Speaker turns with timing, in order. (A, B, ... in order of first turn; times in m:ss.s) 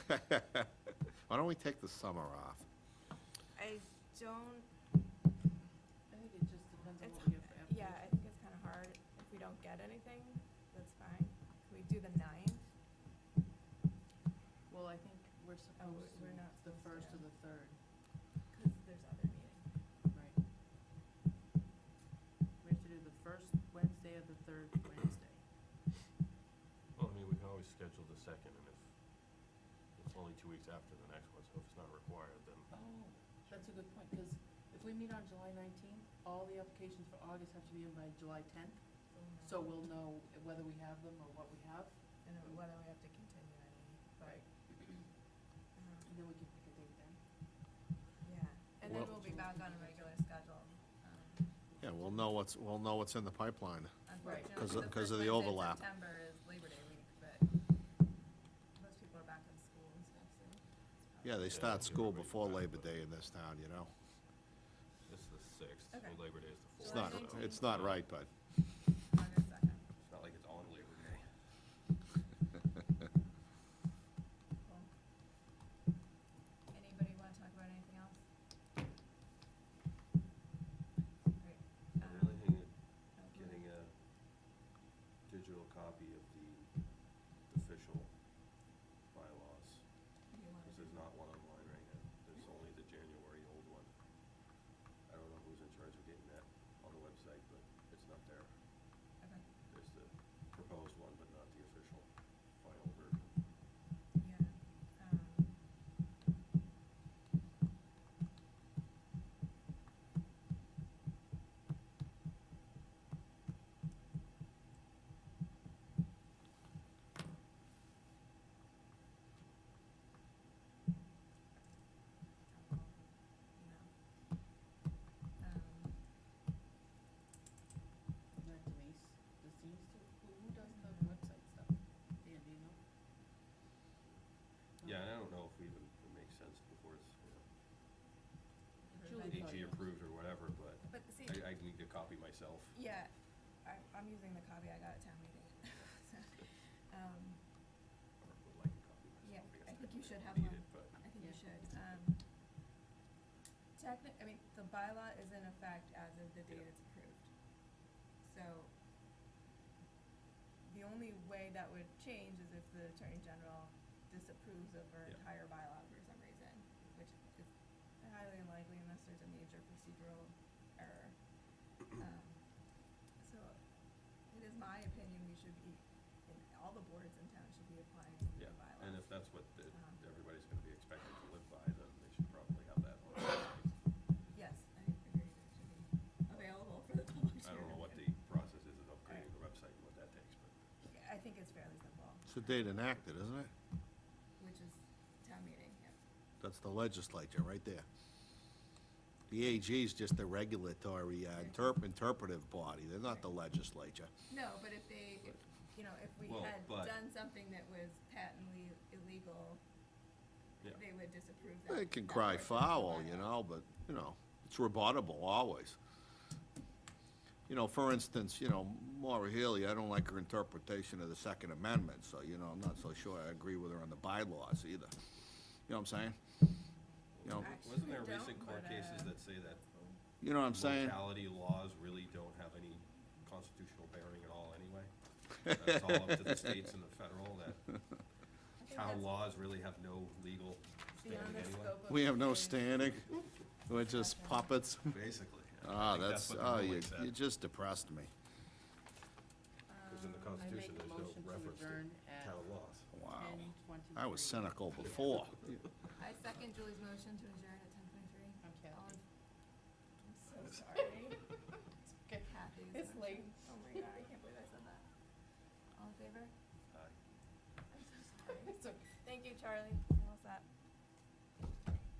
0:00.1-0:00.7 A
0:01.3-0:02.6 A
0:03.6-0:04.7 B
0:06.1-0:08.1 C
0:07.0-0:12.6 B
0:14.7-0:17.8 C
0:15.8-0:17.2 B
0:18.5-0:19.6 B
0:20.1-0:20.4 C
0:22.6-0:25.5 C
0:26.9-0:32.7 D
0:32.7-0:42.5 C
0:39.1-0:39.7 B
0:42.2-0:44.4 B
0:44.2-0:44.5 C
0:45.7-0:46.1 B
0:46.1-0:47.2 C
0:48.2-0:51.5 B
0:48.8-0:50.2 C
0:51.7-0:52.3 C
0:51.8-0:53.9 A
0:54.0-0:57.5 B
0:54.2-0:54.5 C
0:54.5-0:55.8 A
0:58.8-1:01.6 B
1:01.2-1:03.9 A
1:01.5-1:03.0 D
1:05.0-1:08.0 D
1:05.9-1:06.2 B
1:06.7-1:07.7 B
1:06.8-1:08.3 A
1:09.1-1:09.8 B
1:10.0-1:11.3 D
1:14.6-1:14.9 B
1:16.7-1:18.2 B
1:21.4-1:23.7 B
1:22.0-1:23.9 D
1:25.2-1:28.5 D
1:29.1-1:33.9 D
1:30.3-1:31.0 B
1:35.0-1:43.5 D
1:39.2-1:39.5 B
1:44.2-1:45.6 B
2:02.4-2:04.6 B
2:05.4-2:06.0 B
2:08.4-2:12.8 C
2:10.7-2:11.2 B
2:14.8-2:17.5 D
2:18.8-2:19.7 B
2:18.9-2:19.8 C
2:19.1-2:22.8 D
2:20.8-2:21.4 B
2:22.7-2:27.4 B
2:28.2-2:31.0 D
2:29.2-2:32.2 B
2:31.2-2:31.5 C
2:33.7-2:37.3 B
2:38.2-2:38.7 B
2:40.6-2:53.6 B
2:54.2-2:59.1 B
2:58.3-3:03.7 D
2:59.7-3:00.0 B
3:04.3-3:08.0 B
3:07.4-3:10.6 D
3:10.9-3:12.6 B
3:12.3-3:13.5 A
3:14.4-3:16.0 B
3:16.4-3:17.8 A
3:19.3-3:24.1 A
3:21.4-3:21.7 B
3:24.3-3:29.6 B
3:26.2-3:27.0 D
3:30.6-3:33.3 B
3:31.7-3:35.8 A
3:37.5-3:44.9 A
3:45.7-3:46.2 A
3:47.1-3:49.6 D
3:47.2-3:47.6 A
3:47.4-3:50.0 B
3:50.2-3:51.0 A
3:50.5-3:58.0 D
3:58.6-3:59.1 B
3:58.6-4:01.8 D
4:01.0-4:03.0 B
4:01.9-4:03.1 A
4:03.6-4:05.0 A
4:03.9-4:04.5 B
4:04.9-4:07.1 D
4:05.6-4:08.1 A
4:09.7-4:10.5 B
4:09.9-4:12.9 D
4:10.4-4:12.5 C
4:12.9-4:15.4 A
4:13.1-4:15.1 C
4:16.0-4:19.0 B
4:18.4-4:19.0 C
4:20.0-4:21.2 B
4:21.8-4:23.9 C
4:22.2-4:24.9 B
4:25.7-4:26.3 B
4:26.7-4:27.0 D
4:27.7-4:30.4 B
4:28.4-4:28.9 C